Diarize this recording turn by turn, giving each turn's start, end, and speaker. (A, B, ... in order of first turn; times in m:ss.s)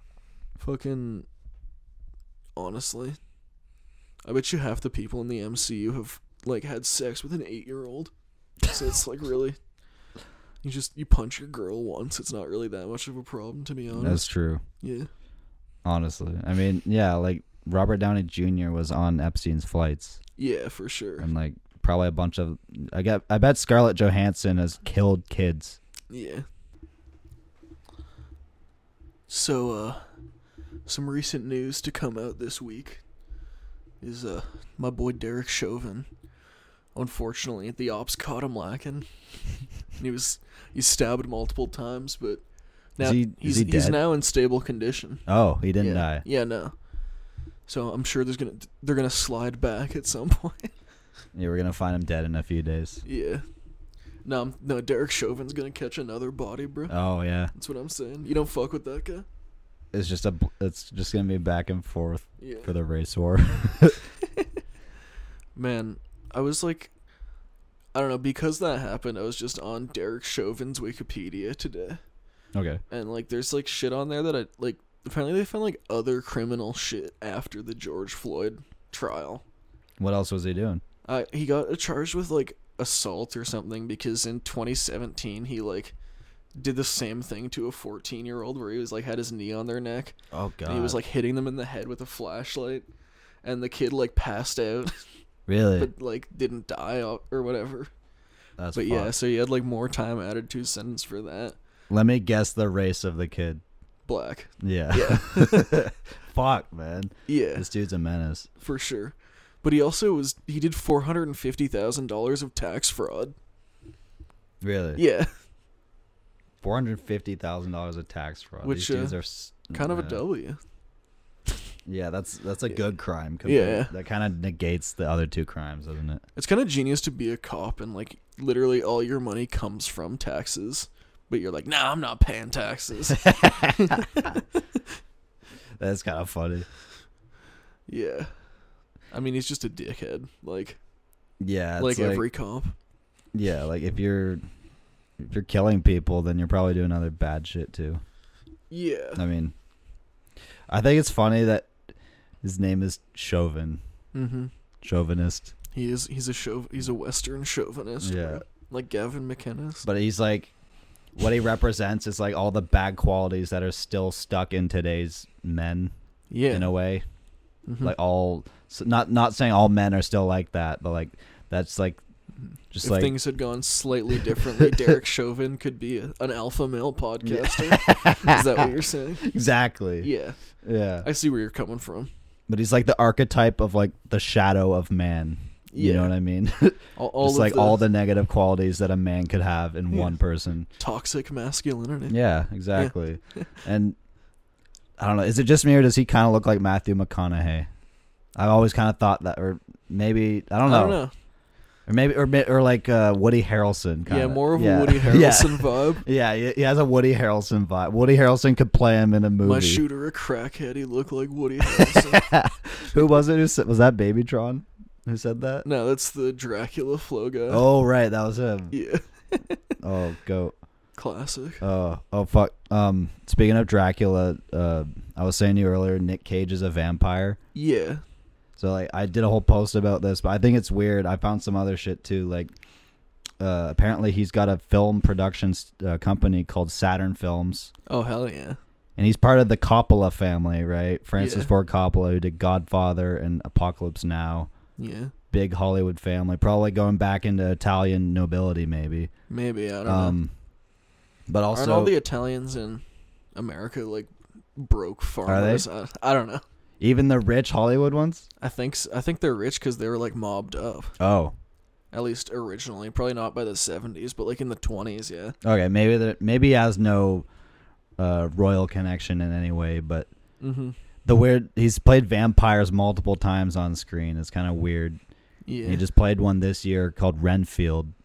0:00.6-0:01.3 A
0:02.6-0:03.2 A
0:04.2-0:08.1 A
0:08.7-0:09.6 A
0:10.6-0:14.3 A
0:13.9-0:14.6 B
0:14.8-0:15.1 A
0:15.8-0:20.2 B
0:20.4-0:21.3 A
0:21.2-0:25.8 B
0:26.1-0:26.4 A
0:29.3-0:30.0 A
0:30.8-0:33.0 A
0:34.0-0:36.1 A
0:36.9-0:42.4 A
0:43.0-0:45.2 A
0:43.0-0:44.0 B
0:45.3-0:46.2 B
0:45.8-0:46.7 A
0:47.7-0:50.7 A
0:51.3-0:53.0 B
0:53.0-0:53.4 A
0:54.2-0:56.9 A
0:56.9-0:57.5 B
0:57.5-0:59.2 A
0:59.9-1:04.1 B
1:02.4-1:02.7 A
1:05.5-1:06.9 A
1:07.9-1:12.0 A
1:12.5-1:12.8 B
1:12.9-1:19.4 A
1:20.0-1:20.8 B
1:21.0-1:25.9 A
1:26.5-1:32.9 A
1:30.3-1:31.0 B
1:33.4-1:35.0 A
1:35.5-1:35.9 B
1:35.8-1:37.9 A
1:38.6-1:39.1 B
1:38.7-1:41.6 A
1:41.9-1:43.6 B
1:44.0-1:45.9 A
1:44.6-1:48.5 B
1:47.3-1:47.6 A
1:48.6-1:53.3 A
1:54.6-1:55.0 B
1:55.0-1:55.3 A
1:56.6-2:00.2 B
1:58.6-1:59.2 A
1:59.7-2:00.6 A
2:01.8-2:06.2 B
2:03.4-2:03.9 A
2:06.3-2:14.9 A
2:13.1-2:14.4 B
2:15.8-2:16.7 B
2:17.9-2:18.3 A
2:19.1-2:20.8 A
2:21.4-2:22.2 B
2:21.8-2:22.7 A
2:23.3-2:24.4 B
2:25.2-2:28.0 B
2:28.7-2:29.2 A
2:29.2-2:29.5 B
2:30.7-2:31.7 B
2:32.4-2:33.8 B
2:34.1-2:34.5 A
2:34.8-2:35.5 B
2:35.7-2:39.9 A
2:38.0-2:38.4 B
2:39.8-2:40.5 B
2:41.2-2:45.9 B
2:46.3-2:46.7 A
2:46.5-2:47.0 B
2:47.7-2:47.9 A
2:47.8-2:52.0 B
2:52.7-2:53.2 B
2:52.8-2:59.3 A
2:54.4-2:54.6 B
2:57.2-3:00.1 B
3:00.0-3:00.4 A
3:00.6-3:01.1 B
3:01.0-3:02.1 A
3:02.5-3:10.7 B
3:05.7-3:06.1 A
3:07.0-3:07.8 A
3:10.8-3:12.2 A
3:12.1-3:14.0 B
3:12.7-3:13.5 A
3:15.0-3:17.7 B
3:18.4-3:21.0 B
3:20.6-3:21.1 A
3:21.9-3:29.8 B
3:24.0-3:26.0 A
3:29.4-3:32.3 A
3:31.6-3:35.6 B
3:35.6-3:37.6 A
3:37.5-3:38.7 B
3:38.7-3:39.7 A
3:39.8-3:40.5 B
3:41.0-3:41.6 A
3:41.6-3:47.4 B
3:47.5-3:48.0 A
3:48.6-3:52.5 B
3:53.4-3:57.7 B
3:57.9-3:58.6 A
3:59.0-4:04.5 B
4:01.2-4:01.5 A
4:04.8-4:05.1 A
4:05.3-4:09.1 B
4:09.3-4:10.2 A
4:09.8-4:10.3 B
4:11.3-4:11.9 B
4:11.5-4:12.8 A
4:13.3-4:16.4 A
4:15.2-4:15.6 B
4:16.8-4:18.3 B
4:18.4-4:20.9 A
4:21.0-4:21.3 B
4:21.9-4:25.4 A
4:25.4-4:27.2 B
4:28.0-4:30.1 B
4:30.4-4:30.8 A
4:31.0-4:35.0 B
4:35.4-4:35.8 A
4:35.6-4:37.9 B